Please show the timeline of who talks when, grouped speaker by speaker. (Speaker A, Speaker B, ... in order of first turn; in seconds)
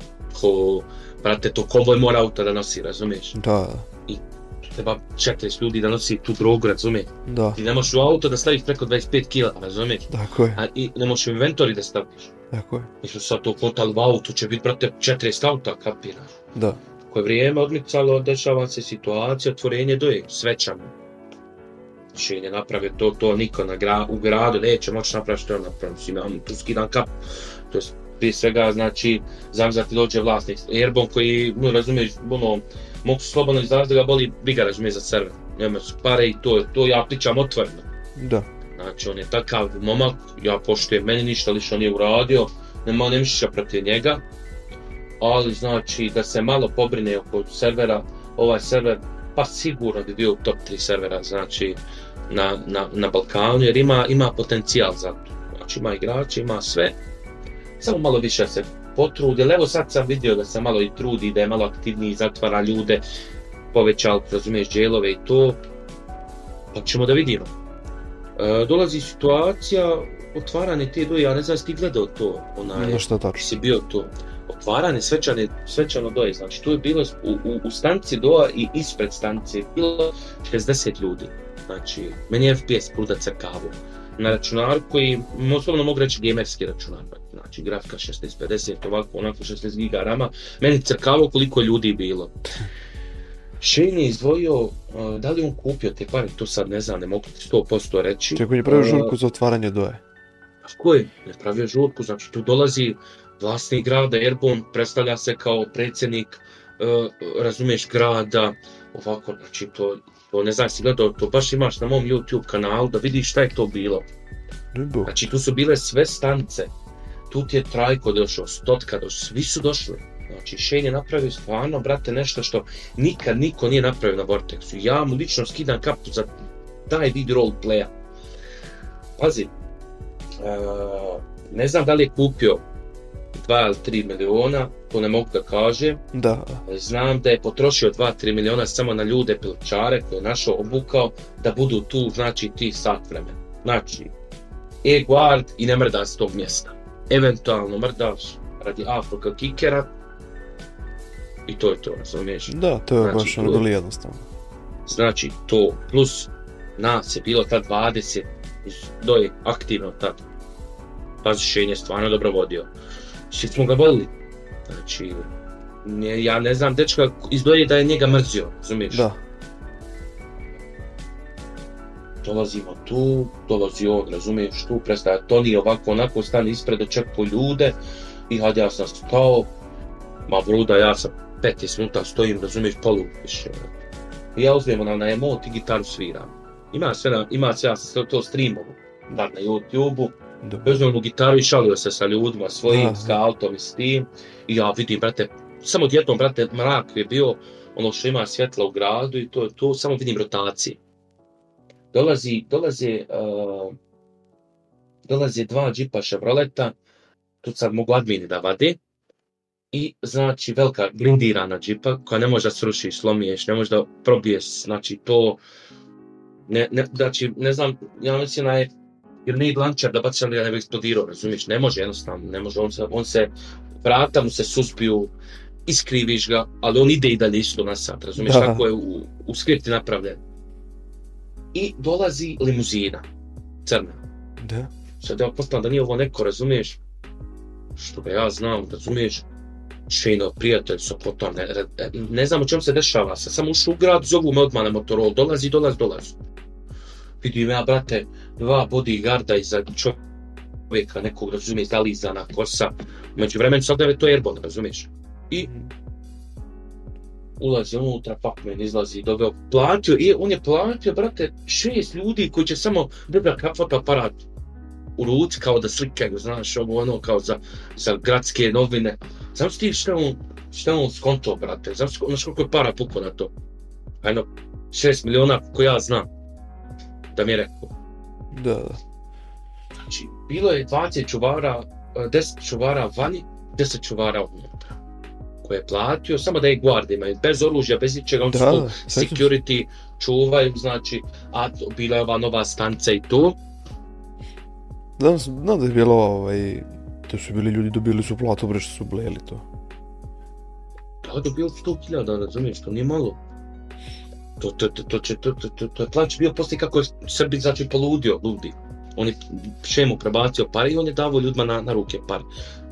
Speaker A: 0.3-3.4, 4.1-12.3, 13.0-16.4, 17.1-20.9, 22.1-27.1, 27.7-37.9, 38.8-44.2, 45.2-57.0, 57.8-63.0, 63.7-65.6, 66.7-67.5, 68.4-92.3, 93.6-99.1, 100.6-114.0, 115.0-116.7, 117.3-126.3, 126.9-127.9, 129.2-129.5, 130.4-132.6, 133.3-136.0, 136.7-144.1, 144.8-149.9, 151.5-153.7, 154.8-160.2, 161.2-162.7, 163.3-164.1, 164.7-165.3, 165.8-169.1, 172.2-177.8, 178.3-179.5, 180.3-183.6, 184.3-200.8, 201.9-203.8, 205.0-206.7, 207.4-208.8, 209.7-215.4, 216.5-218.7, 219.2-225.1, 225.7-230.2, 231.5-233.1, 233.7-234.0, 235.0-236.8, 237.8-239.2, 239.9-246.2, 247.2-250.0, 250.7-255.5, 257.4-264.2, 265.0-273.3, 274.0-276.1, 277.1-277.7, 279.8-284.6, 285.4-293.4, 301.0-303.2, 304.4-312.3
Speaker B: 3.3-3.9, 7.2-7.6, 10.1-10.6, 12.5-12.9, 16.5-16.8, 38.1-38.5, 72.7-73.5, 98.3-100.0, 114.7-115.1, 136.1-136.6, 152.5-154.3, 168.9-169.2, 190.4-190.7, 192.7-193.2, 228.2-228.7, 234.4-234.7, 255.4-255.7, 278.3-278.8, 288.3-289.3, 295.0-299.4